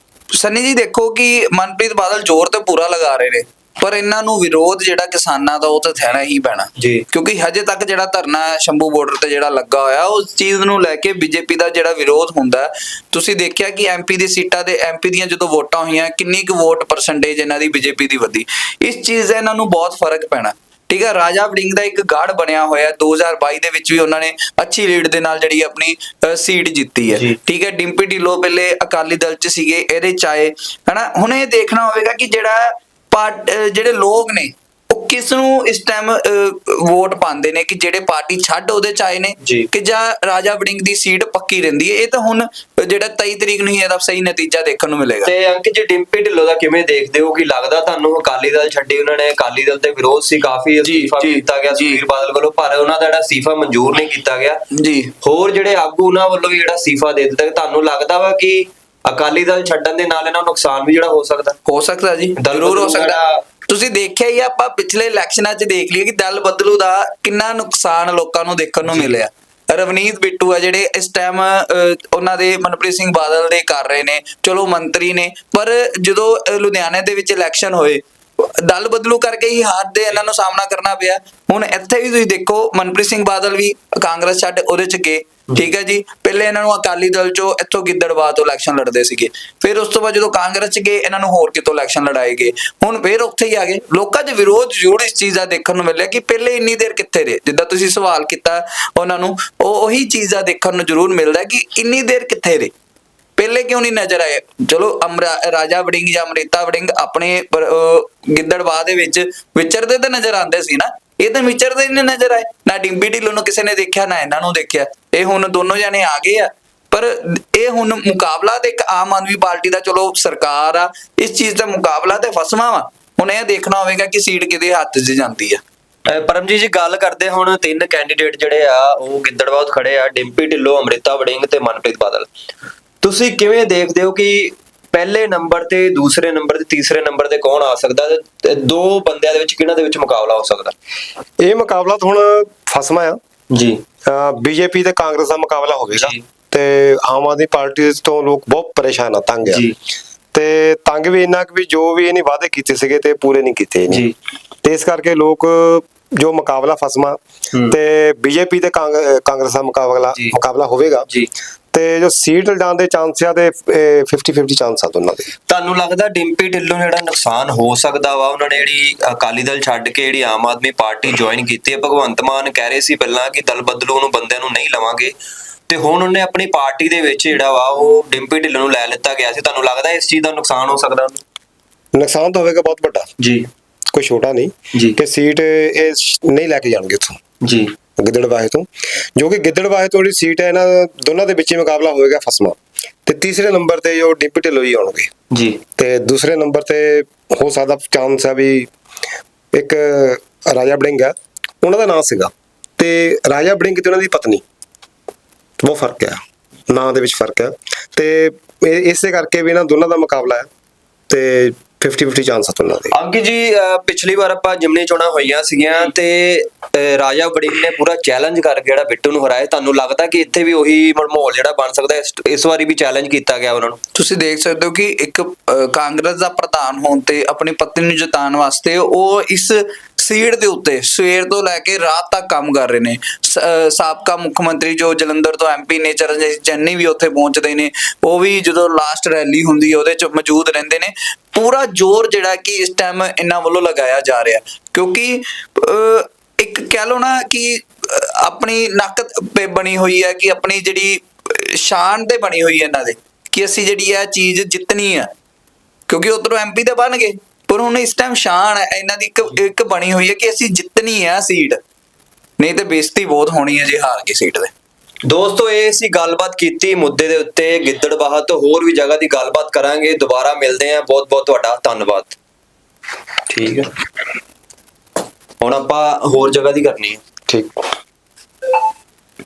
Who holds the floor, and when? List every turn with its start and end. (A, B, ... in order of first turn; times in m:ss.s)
0:00.4-0:45.3 A
0:06.8-0:07.0 B
0:39.4-0:39.7 B
0:45.2-0:54.6 B
0:50.8-0:52.0 A
0:54.7-0:55.1 A
0:55.2-1:01.6 B
1:01.6-1:42.7 A
1:02.4-1:03.4 B
1:08.8-1:09.2 B
1:43.4-2:05.6 A
2:06.1-2:12.3 B
2:13.0-2:20.7 B
2:21.4-2:23.2 C
2:23.5-2:23.8 B
2:24.0-2:29.6 C
2:25.9-2:26.2 B
2:29.4-2:29.7 B
2:30.3-2:34.0 C
2:34.6-2:37.2 C
2:37.7-2:41.1 C
2:41.7-2:45.3 C
2:45.5-2:55.1 B
2:55.7-3:01.2 B
3:01.9-3:03.1 C
3:03.2-3:03.5 B
3:03.9-3:07.2 C
3:07.4-3:07.7 B
3:08.0-3:15.1 C
3:15.3-3:15.6 B
3:15.8-3:18.7 C
3:19.5-3:24.4 C
3:25.6-3:30.5 C
3:31.1-3:32.9 C
3:32.9-3:43.8 B
3:43.9-4:15.1 A
4:15.9-4:21.6 A
4:22.4-4:24.5 A
4:25.0-4:32.2 B
4:33.3-4:33.7 B
4:35.4-4:37.0 B
4:37.3-4:37.6 C